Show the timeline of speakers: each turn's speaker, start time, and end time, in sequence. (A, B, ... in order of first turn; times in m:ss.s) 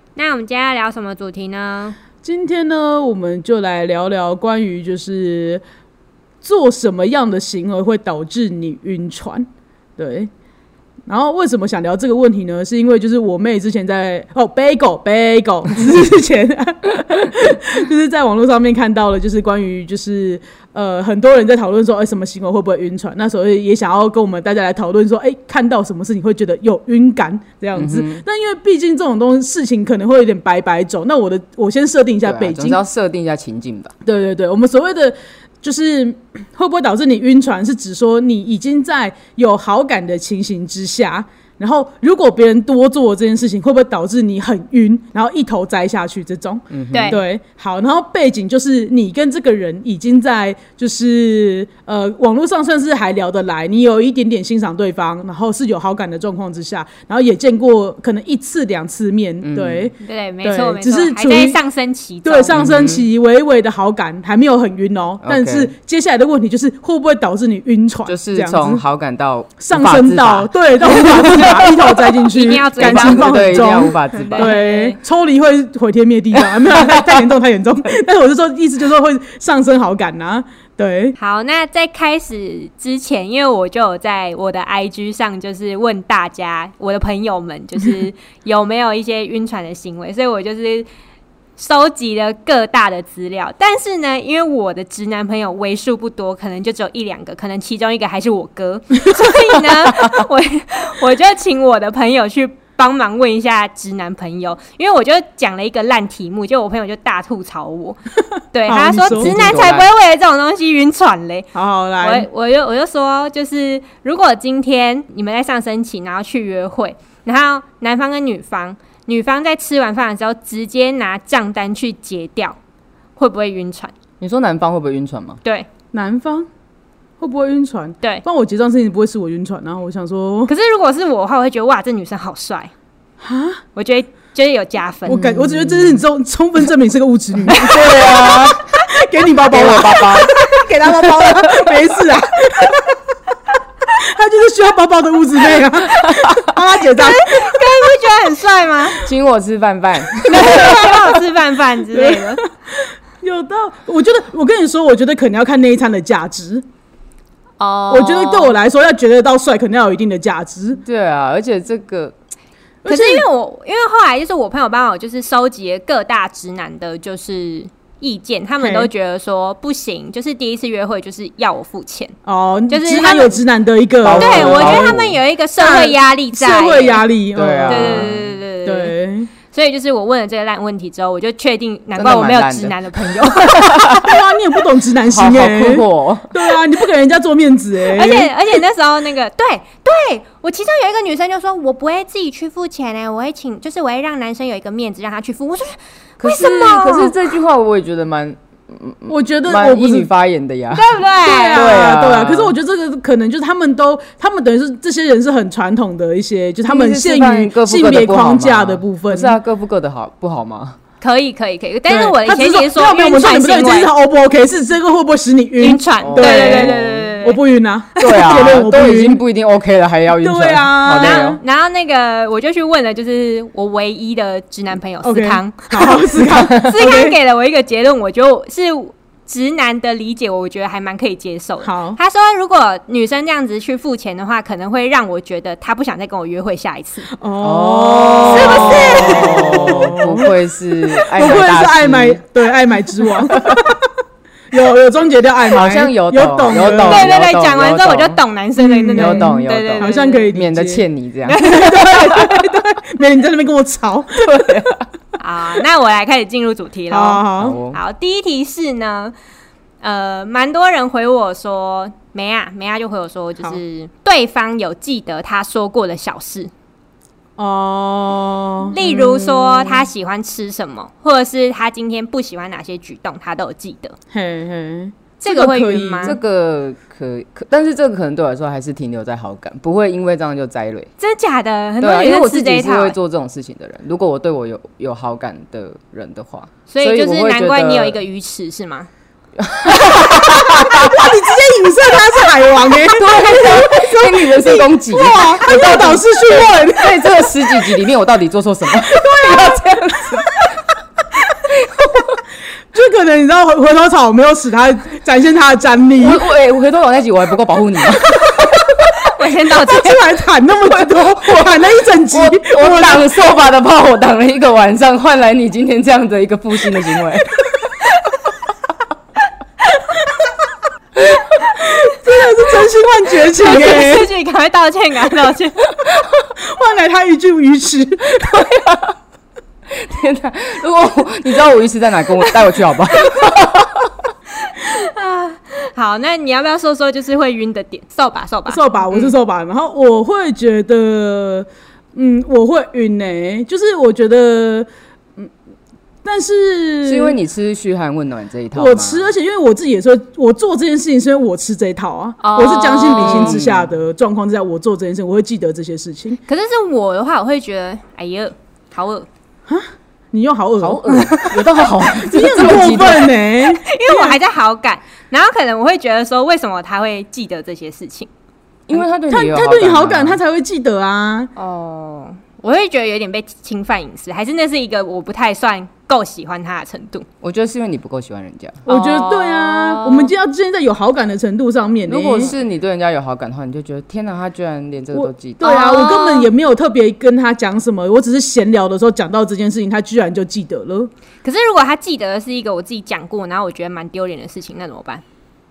0:00.2-0:02.0 A
0:02.2-0:05.6 B
0:06.4-0:09.5 B
0:10.0-0:10.3 B
0:11.1-0:32.8 B
0:27.7-0:28.2 C
0:32.2-0:33.9 C
0:34.0-1:01.6 B
0:46.7-0:47.2 C
0:46.9-0:47.2 A
0:59.4-0:59.9 C
1:00.0-1:02.6 A
1:02.2-1:08.8 B
1:02.5-1:03.1 C
1:05.2-1:05.7 C
1:08.0-1:11.9 C
1:09.6-1:21.2 B
1:12.3-1:15.0 A
1:12.8-1:14.6 C
1:16.4-1:17.2 C
1:21.2-1:30.9 A
1:31.6-1:48.0 A
1:48.5-1:51.5 A
1:48.7-1:49.3 B
1:49.2-1:49.9 C
1:51.5-1:52.3 B
1:52.0-2:02.6 A
2:03.2-2:03.9 A
2:04.2-2:05.4 C
2:05.9-2:06.5 B
2:07.2-2:10.5 B
2:10.5-2:12.7 A
2:13.2-2:13.6 B
2:13.7-2:15.2 A
2:15.1-2:23.0 B
2:15.1-2:16.0 C
2:17.5-2:18.6 C
2:19.5-2:20.3 C
2:20.8-2:21.5 C
2:23.9-2:27.9 B
2:26.9-2:29.1 A
2:29.0-2:30.8 C
2:30.2-2:36.6 B
2:30.2-2:32.4 A
2:37.6-2:38.5 A
2:37.9-2:40.8 B
2:40.8-2:42.1 C
2:42.8-2:43.2 B
2:42.8-2:52.1 A
2:48.6-2:48.9 B
2:52.2-2:55.0 B
2:52.7-2:53.4 A
2:54.0-2:55.2 C
2:54.2-2:57.1 A
2:55.6-2:59.3 B
2:57.3-2:58.3 C
2:57.7-2:58.9 A
2:59.5-3:04.1 A
3:02.0-3:04.0 C
3:03.9-3:08.3 B
3:05.1-3:06.3 C
3:07.9-3:17.1 A
3:16.2-3:21.0 C
3:19.1-3:20.1 B
3:20.7-3:21.8 A
3:21.2-3:29.4 B
3:21.5-3:22.5 C
3:26.6-3:30.8 C
3:31.0-3:33.9 A
3:31.9-3:39.2 B
3:35.6-3:37.4 A
3:36.0-3:37.1 C
3:38.0-3:38.3 A
3:38.0-3:41.4 C
3:40.2-3:41.4 B
3:41.0-3:57.1 A
3:45.0-3:47.2 B
3:51.6-3:52.0 B
3:57.2-4:03.9 B
3:57.4-4:02.2 C
3:58.2-3:59.7 A
4:03.3-4:03.6 C
4:04.5-4:07.1 B
4:05.5-4:08.2 C
4:06.8-4:10.3 A
4:08.6-4:14.7 B
4:08.9-4:12.4 C
4:11.3-4:12.0 A
4:14.2-4:14.8 C
4:15.2-4:19.1 A
4:16.9-4:17.6 B
4:17.4-4:17.8 C
4:19.8-4:26.5 A
4:27.4-4:29.9 B
4:28.7-4:33.9 A
4:34.1-4:36.2 B
4:35.2-4:36.1 A
4:36.0-4:40.9 C
4:41.0-4:43.0 A
4:41.8-4:48.0 C
4:46.7-4:48.9 A
4:49.4-4:51.1 C
4:49.8-4:57.7 B
4:52.9-5:00.4 C
4:58.8-5:00.4 B
5:01.5-5:02.2 C
5:02.7-5:06.2 B
5:06.0-5:08.5 C
5:09.0-5:10.0 A
5:09.5-5:13.2 B
5:10.6-5:17.4 C
5:21.4-5:24.1 B
5:23.3-5:25.6 A
5:26.4-5:28.6 B
5:28.2-5:28.9 C
5:29.7-5:34.1 C
5:34.4-5:39.1 A
5:38.5-5:45.3 B
5:46.0-5:47.2 B
5:46.8-5:49.1 C
5:48.5-5:56.2 B
5:52.2-5:53.4 A
5:52.8-5:53.7 C
5:56.2-5:59.1 A
5:59.5-6:04.2 B
6:00.6-6:03.1 C
6:03.5-6:08.1 A
6:08.7-6:10.2 C
6:08.7-6:11.3 B
6:11.4-6:17.0 A
6:17.2-6:18.6 C
6:18.6-6:20.1 A
6:18.6-6:22.3 B
6:21.8-6:25.4 C
6:24.9-6:30.9 B
6:25.4-6:26.3 A
6:31.2-6:35.0 A